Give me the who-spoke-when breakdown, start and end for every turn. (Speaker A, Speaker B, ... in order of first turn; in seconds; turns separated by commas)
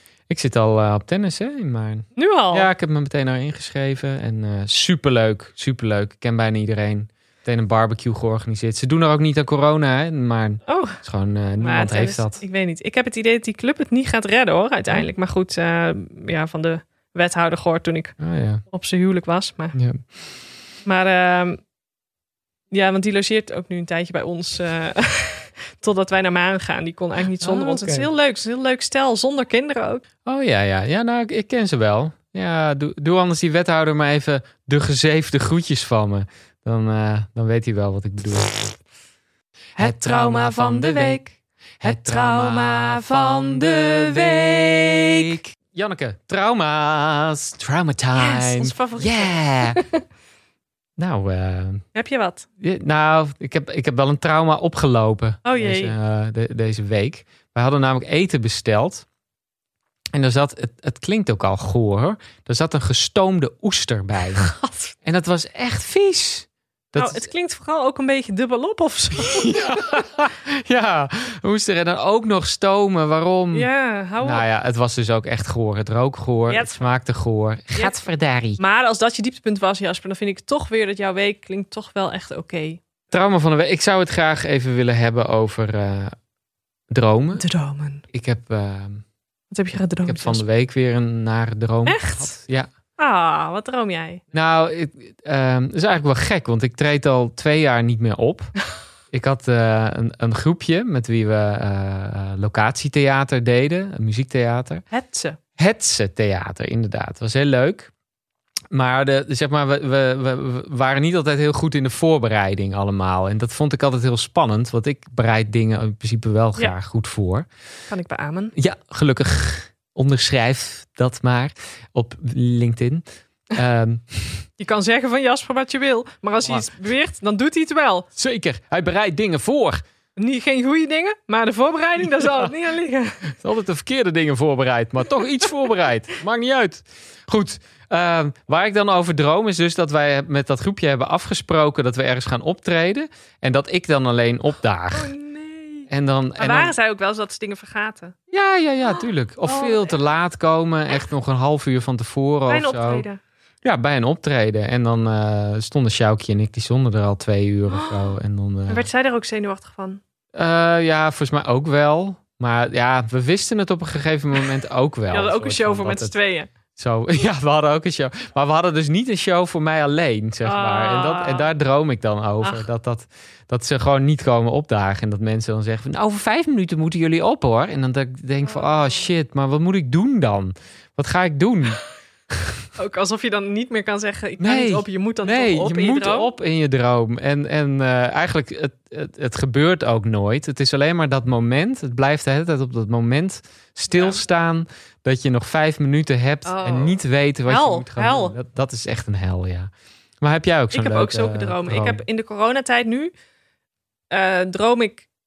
Speaker A: 0.3-12.4, Speaker B: 2.1-2.7, Speaker B: 10.7-11.0, Speaker B: 11.6-18.1, Speaker A: 18.2-18.6, Speaker B: 18.7-19.8, Speaker A: 19.7-20.0, Speaker B: 20.9-21.6, Speaker B: 22.7-30.0, Speaker A: 27.4-28.1, Speaker A: 30.2-38.8, Speaker B: 39.8-45.4, Speaker A: 39.8-41.2, Speaker A: 41.8-49.8, Speaker B: 48.1-50.0, Speaker A: 51.0-51.8, Speaker B: 51.9-52.5, Speaker A: 52.6-59.0, Speaker B: 55.4-55.9, Speaker A: 60.1-64.5, Speaker B: 64.4-64.9, Speaker A: 65.0-67.3, Speaker B: 67.0-70.0, Speaker A: 69.2-73.7, Speaker B: 73.5-74.4, Speaker A: 74.2-78.6, Speaker B: 76.5-76.8, Speaker B: 78.6-82.8, Speaker A: 83.1-86.1, Speaker A: 86.9-87.4, Speaker B: 87.3-88.0, Speaker A: 88.1-89.0, Speaker B: 89.5-90.4, Speaker A: 90.0-92.7, Speaker B: 91.8-92.3, Speaker B: 93.0-94.2, Speaker A: 94.3-98.5, Speaker A: 99.1-104.8, Speaker B: 104.9-105.4, Speaker A: 105.6-107.9, Speaker A: 108.7-117.5, Speaker B: 117.9-118.5, Speaker A: 118.5-124.5, Speaker B: 124.6-128.1, Speaker A: 128.1-129.8, Speaker B: 130.2-133.3, Speaker A: 132.2-132.5, Speaker A: 133.4-145.1, Speaker B: 144.9-148.1, Speaker A: 145.9-146.7, Speaker A: 148.3-153.1, Speaker B: 148.9-149.9, Speaker B: 152.5-153.2, Speaker A: 153.6-158.9, Speaker B: 157.7-158.1, Speaker B: 158.7-160.0, Speaker A: 160.3-166.1, Speaker B: 165.1-166.5, Speaker A: 166.8-181.8, Speaker B: 170.4-171.5, Speaker A: 182.3-182.6, Speaker B: 182.8-186.3, Speaker A: 184.4-202.0, Speaker B: 193.9-194.2, Speaker B: 196.4-198.3, Speaker B: 200.7-203.1, Speaker B: 204.1-205.1